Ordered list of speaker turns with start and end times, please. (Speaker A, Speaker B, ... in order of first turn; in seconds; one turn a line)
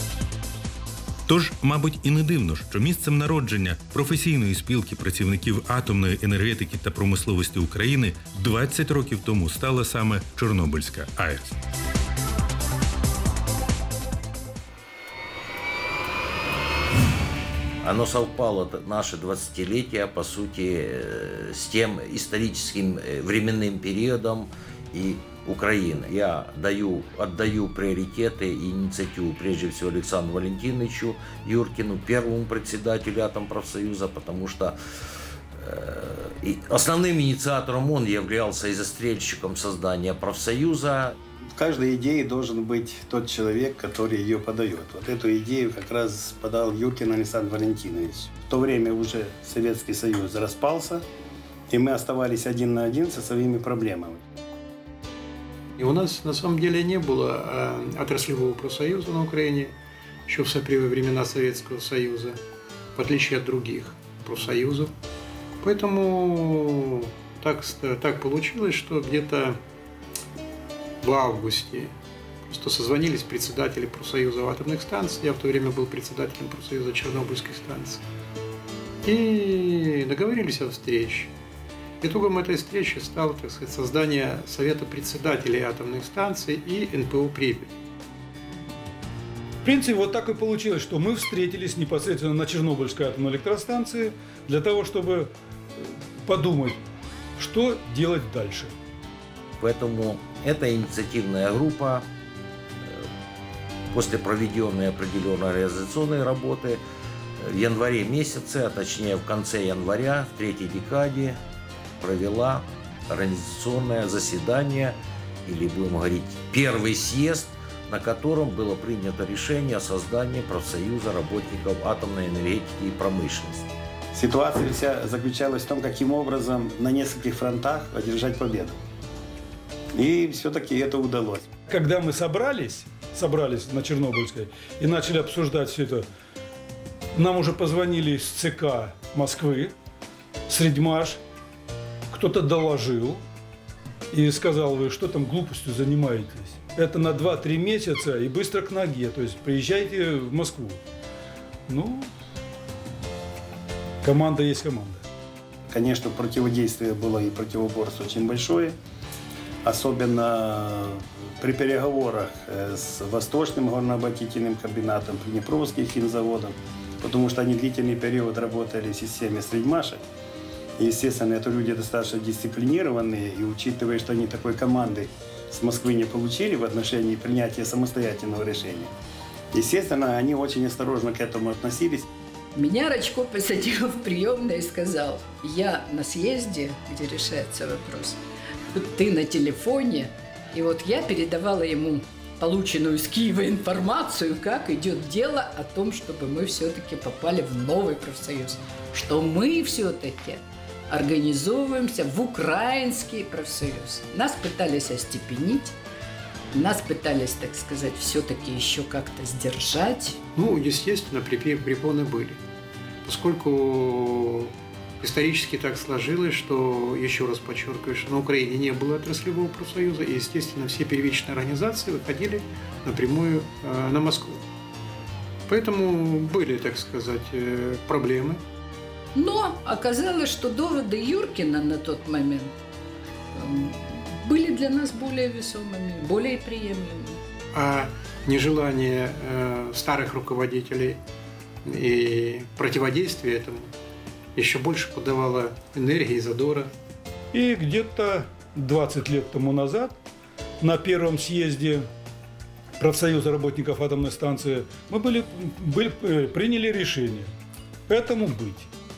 Speaker A: 1.3-11.5
Speaker B: 17.8-34.8
Speaker B: 35.6-41.1
Speaker C: 41.6-51.0
Speaker C: 51.7-54.2
Speaker D: 55.8-59.7
Speaker D: 60.3-62.4
Speaker D: 63.0-64.9
Speaker D: 65.6-69.6
Speaker D: 71.0-71.9
Speaker D: 72.5-78.0
Speaker D: 79.0-81.3
Speaker D: 82.0-87.7
Speaker E: 89.7-95.3
Speaker E: 96.2-96.8
Speaker E: 97.4-98.7
Speaker B: 99.6-102.0
Speaker B: 103.9-106.8
Speaker B: 107.4-111.4
Speaker B: 112.0-123.7
Speaker C: 124.1-128.8
Speaker C: 129.9-131.5
Speaker E: 131.7-136.1
Speaker E: 137.2-139.7
Speaker E: 140.5-141.2
Speaker E: 142.1-143.2
Speaker E: 144.1-150.8
Speaker E: 151.7-152.1
Speaker E: 154.0-155.1
Speaker C: 155.7-158.8
Speaker C: 159.6-170.0
Speaker C: 170.8-178.9
Speaker C: 179.5-182.1
Speaker F: 182.5-188.2
Speaker F: 188.7-205.7
Speaker F: 206.5-210.2
Speaker D: 210.4-212.4
Speaker D: 213.1-224.4
Speaker D: 225.5-228.4
Speaker F: 229.2-232.5
Speaker F: 233.3-237.2
Speaker D: 237.6-241.0
Speaker D: 241.7-243.7
Speaker D: 244.4-246.7
Speaker E: 247.3-249.9
Speaker E: 250.6-251.9
Speaker E: 252.8-257.3
Speaker E: 257.9-258.7